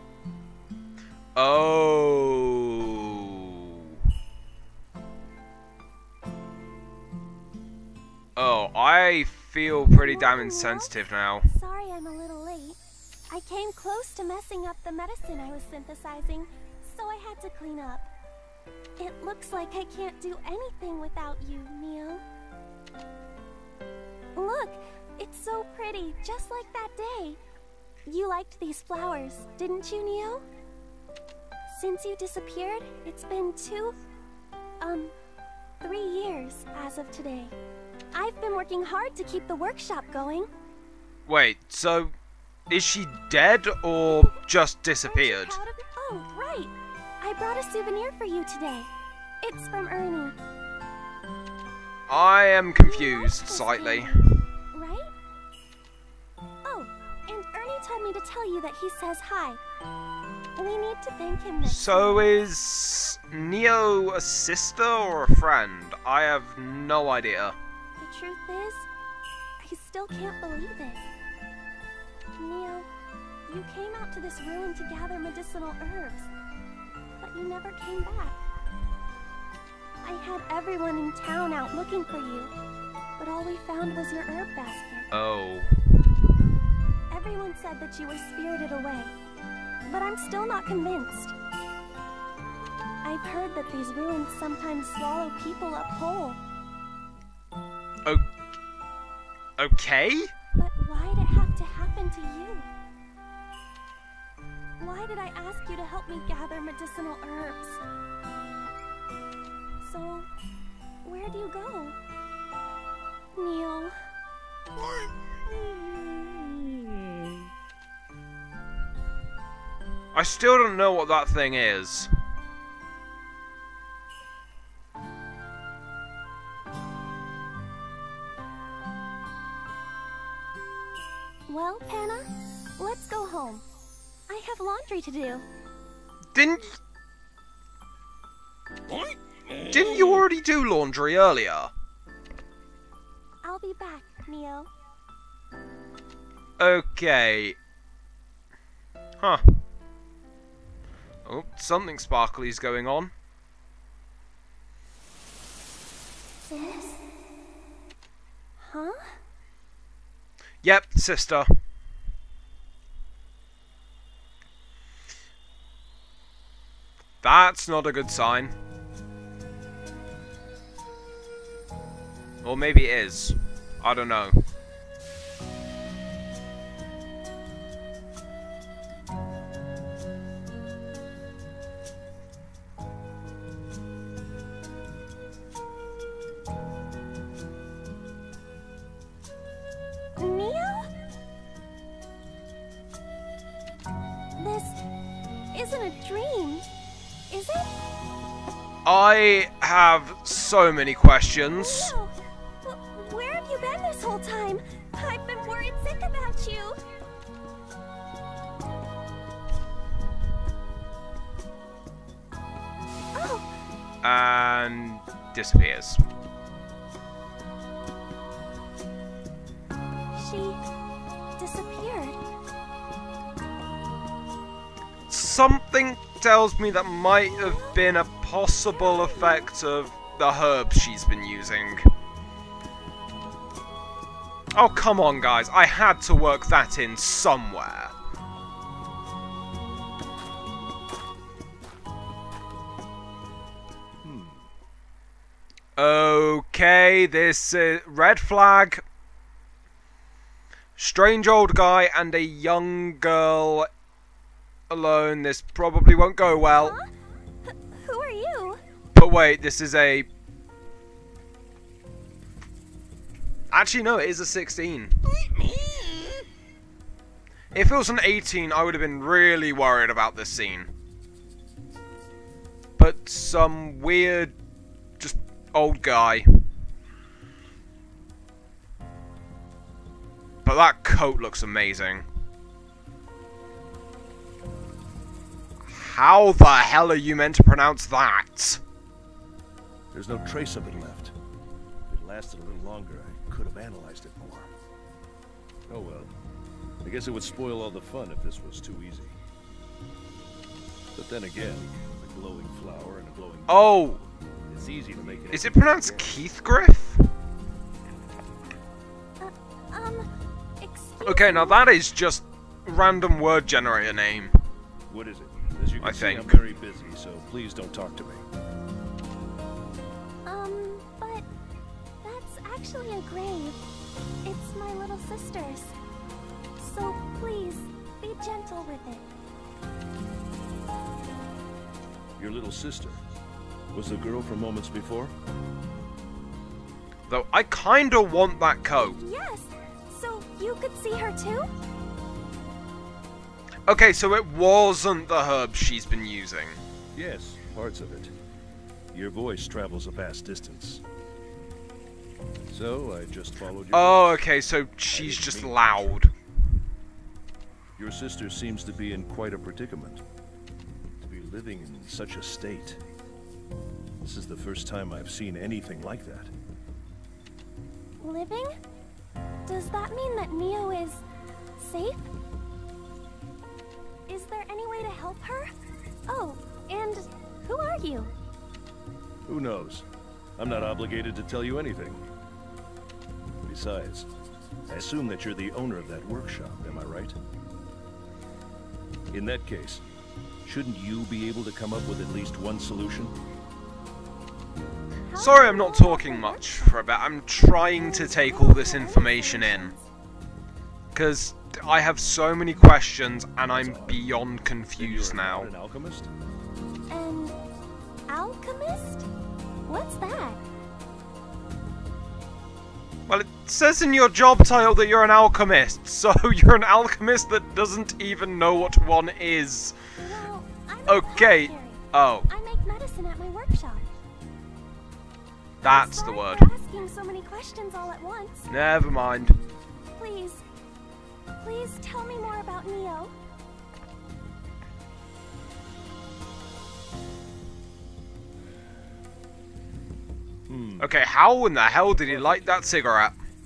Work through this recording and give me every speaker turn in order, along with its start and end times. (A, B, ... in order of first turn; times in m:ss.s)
0:01.4-0:03.9 A
0:08.4-0:11.5 A
0:09.9-0:12.8 B
0:13.3-0:18.1 B
0:19.0-0:22.2 B
0:24.4-0:27.4 B
0:28.1-0:30.4 B
0:31.7-0:34.0 B
0:34.8-0:35.1 B
0:35.8-0:37.5 B
0:38.1-0:40.5 B
0:41.3-0:42.1 A
0:42.7-0:45.6 A
0:44.1-0:44.4 B
0:45.0-0:48.9 B
0:49.4-0:50.4 B
0:52.1-0:54.4 A
0:52.8-0:55.1 B
0:56.6-0:59.6 B
1:00.6-1:02.4 B
1:01.6-1:07.6 A
1:08.0-1:08.9 B
1:09.6-1:11.0 B
1:12.4-1:12.9 B
1:13.5-1:16.3 B
1:17.2-1:18.4 B
1:20.0-1:22.5 B
1:23.2-1:25.1 B
1:25.1-1:25.8 A
1:27.1-1:29.1 B
1:29.9-1:31.3 B
1:33.0-1:36.4 B
1:39.6-1:40.3 A
1:40.6-1:42.7 B
1:44.8-1:47.8 B
1:49.8-1:50.3 B
1:51.0-1:52.0 B
1:53.4-1:54.0 B
2:00.1-2:02.1 A
2:11.5-2:12.3 B
2:12.8-2:13.6 B
2:14.3-2:15.4 B
2:16.4-2:16.8 A
2:19.6-2:21.7 A
2:23.4-2:24.7 B
2:26.6-2:27.6 A
2:31.3-2:33.1 A
2:36.5-2:37.0 B
2:38.6-2:39.2 B
2:40.6-2:41.5 A
2:47.2-2:48.6 A
2:52.4-2:54.4 A
3:10.2-3:10.9 B
3:14.4-3:14.8 B
3:15.5-3:16.7 B
3:17.3-3:17.8 B
3:18.8-3:22.0 A
3:21.5-3:26.8 B
3:33.2-3:33.5 B
3:34.0-3:36.0 A
3:40.2-3:40.6 B
3:41.4-3:42.2 B
3:45.1-3:51.9 A
3:47.3-3:47.8 B
3:48.7-3:49.5 B
3:54.6-3:57.9 A
4:04.0-4:04.5 C
4:05.8-4:08.8 A
4:10.8-4:13.7 A
4:14.7-4:16.8 A
4:16.4-4:16.9 B
4:17.5-4:18.6 B
4:19.0-4:20.1 A
4:23.5-4:25.0 A
4:27.5-4:30.7 A
4:32.8-4:34.3 A
4:35.0-4:36.3 A
4:40.4-4:42.0 A
4:45.7-4:48.6 A
4:49.9-4:51.2 C
4:51.9-4:54.5 C
4:55.7-4:56.1 C
4:56.8-4:59.2 C
5:01.0-5:03.9 C
5:03.5-5:04.0 A
5:04.5-5:06.2 C
5:05.3-5:07.1 A
5:09.2-5:10.1 B
5:10.6-5:11.6 B
5:11.0-5:14.3 A
5:14.9-5:18.2 C
5:15.8-5:16.4 A
5:20.3-5:21.2 B
5:22.0-5:23.6 B
5:24.2-5:25.8 B
5:26.6-5:29.1 B
5:32.2-5:33.0 C
5:33.7-5:35.1 C
5:37.1-5:39.0 A
5:38.8-5:41.5 B
5:43.7-5:46.6 A
5:47.0-5:48.2 C
5:48.9-5:50.8 C
5:52.5-5:54.3 C
5:53.7-5:56.1 A
5:54.9-5:56.0 C
5:57.8-6:00.0 C
6:01.0-6:02.8 C
6:04.0-6:06.3 C
6:08.0-6:08.5 B
6:09.5-6:11.0 B
6:11.6-6:12.1 B
6:14.1-6:18.1 B
6:19.3-6:19.9 C
6:20.4-6:22.0 C
6:23.4-6:24.1 C
6:24.7-6:27.2 C
6:29.1-6:29.8 C
6:30.4-6:33.2 C
6:35.1-6:36.9 B
6:35.2-6:39.7 A
6:37.5-6:39.8 B
6:40.9-6:45.5 A
6:43.4-6:44.2 C
6:44.8-6:46.1 C
6:46.9-6:47.4 B
6:48.1-6:49.1 B
6:49.7-6:50.4 B
6:53.1-6:59.8 A
7:00.0-7:03.8 B
7:00.9-7:02.3 A
7:05.6-7:06.5 A
7:05.6-7:08.5 B
7:08.5-7:09.4 A
7:10.0-7:10.4 B
7:11.4-7:13.1 B
7:20.5-7:20.9 C
7:20.8-7:23.2 A
7:22.0-7:22.8 C